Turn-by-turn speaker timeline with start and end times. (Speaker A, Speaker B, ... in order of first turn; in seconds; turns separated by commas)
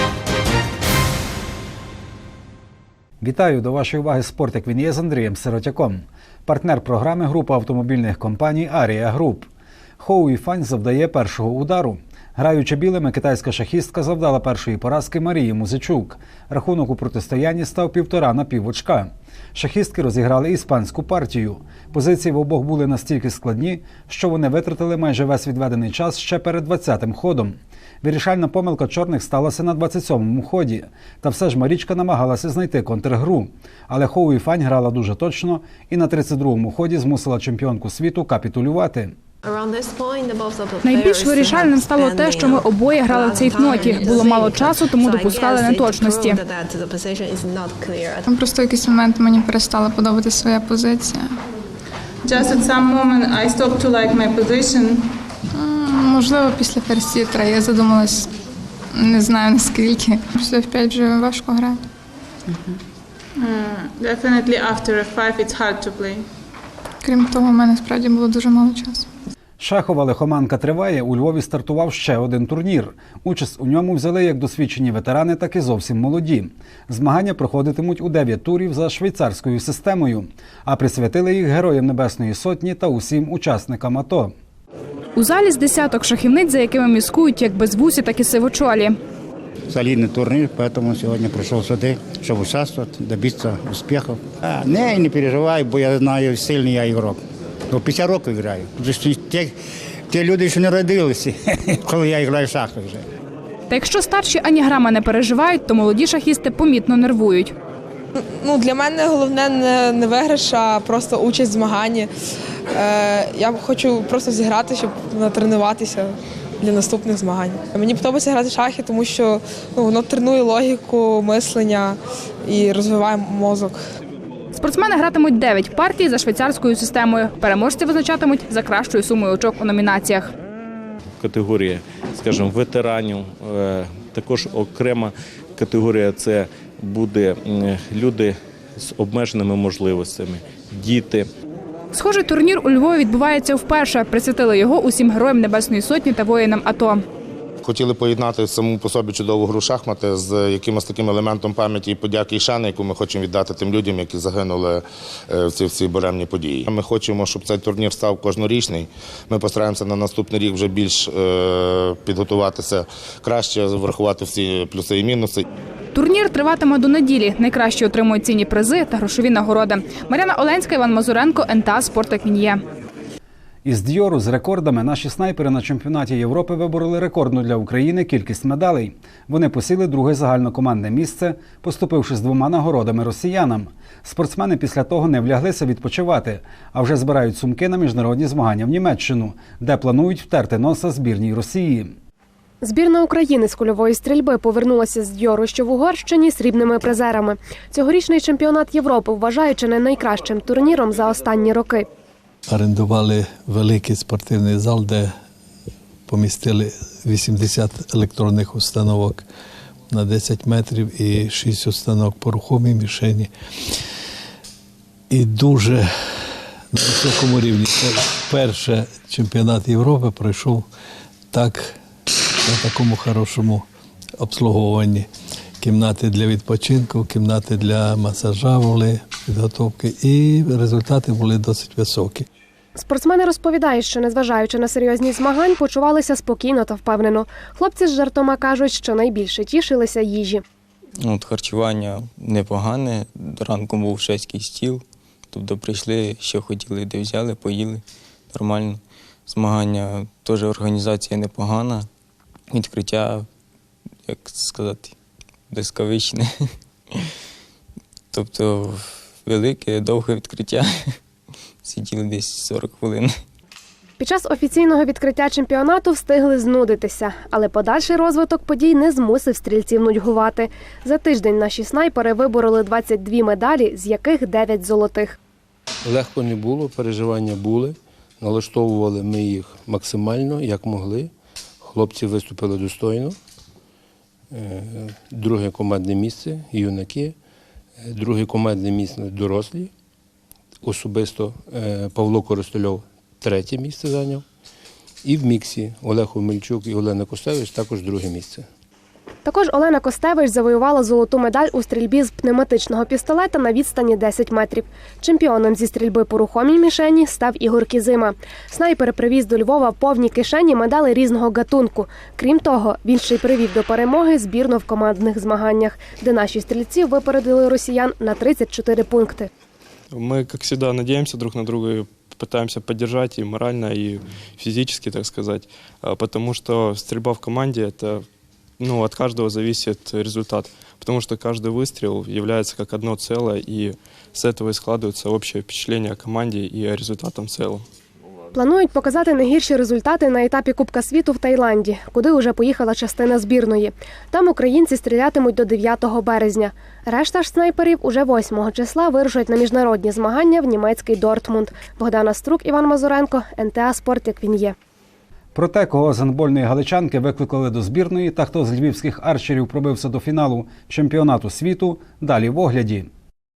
Speaker A: 3.2-39.1, Speaker B: 39.4-51.3, Speaker C: 40.8-46.4, Speaker B: 52.3-54.9, Speaker B: 56.2-58.3, Speaker B: 59.1-61.7, Speaker B: 64.0-66.2, Speaker B: 67.1-69.0, Speaker A: 69.6-84.3, Speaker C: 85.2-89.0, Speaker D: 89.7-97.2, Speaker D: 97.7-99.5, Speaker D: 100.1-103.1, Speaker C: 103.7-107.5, Speaker E: 108.3-112.1, Speaker E: 112.7-123.8, Speaker C: 124.5-130.3, Speaker F: 131.2-141.3, Speaker C: 141.9-147.0, Speaker G: 147.6-165.4, Speaker C: 165.9-172.6, Speaker A: 173.6-191.9, Speaker H: 192.6-201.8, Speaker I: 202.5-205.1, Speaker I: 206.1-209.2, Speaker I: 209.9-213.3, Speaker I: 215.1-215.9, Speaker I: 216.7-220.7, Speaker I: 221.3-221.7, Speaker I: 222.4-223.6, Speaker I: 224.2-225.1, Speaker I: 225.6-232.2, Speaker H: 232.8-240.4, Speaker J: 241.0-251.9, Speaker J: 252.5-253.2, Speaker J: 254.1-254.9, Speaker J: 255.5-256.3, Speaker J: 258.1-260.7, Speaker J: 261.6-263.1, Speaker H: 264.0-275.1, Speaker K: 275.8-283.2, Speaker K: 284.3-287.1, Speaker K: 287.8-289.7, Speaker K: 290.6-294.2, Speaker K: 295.0-298.5, Speaker H: 299.2-319.3, Speaker L: 319.9-328.1, Speaker L: 328.6-337.6, Speaker H: 338.3-354.5, Speaker A: 355.3-362.9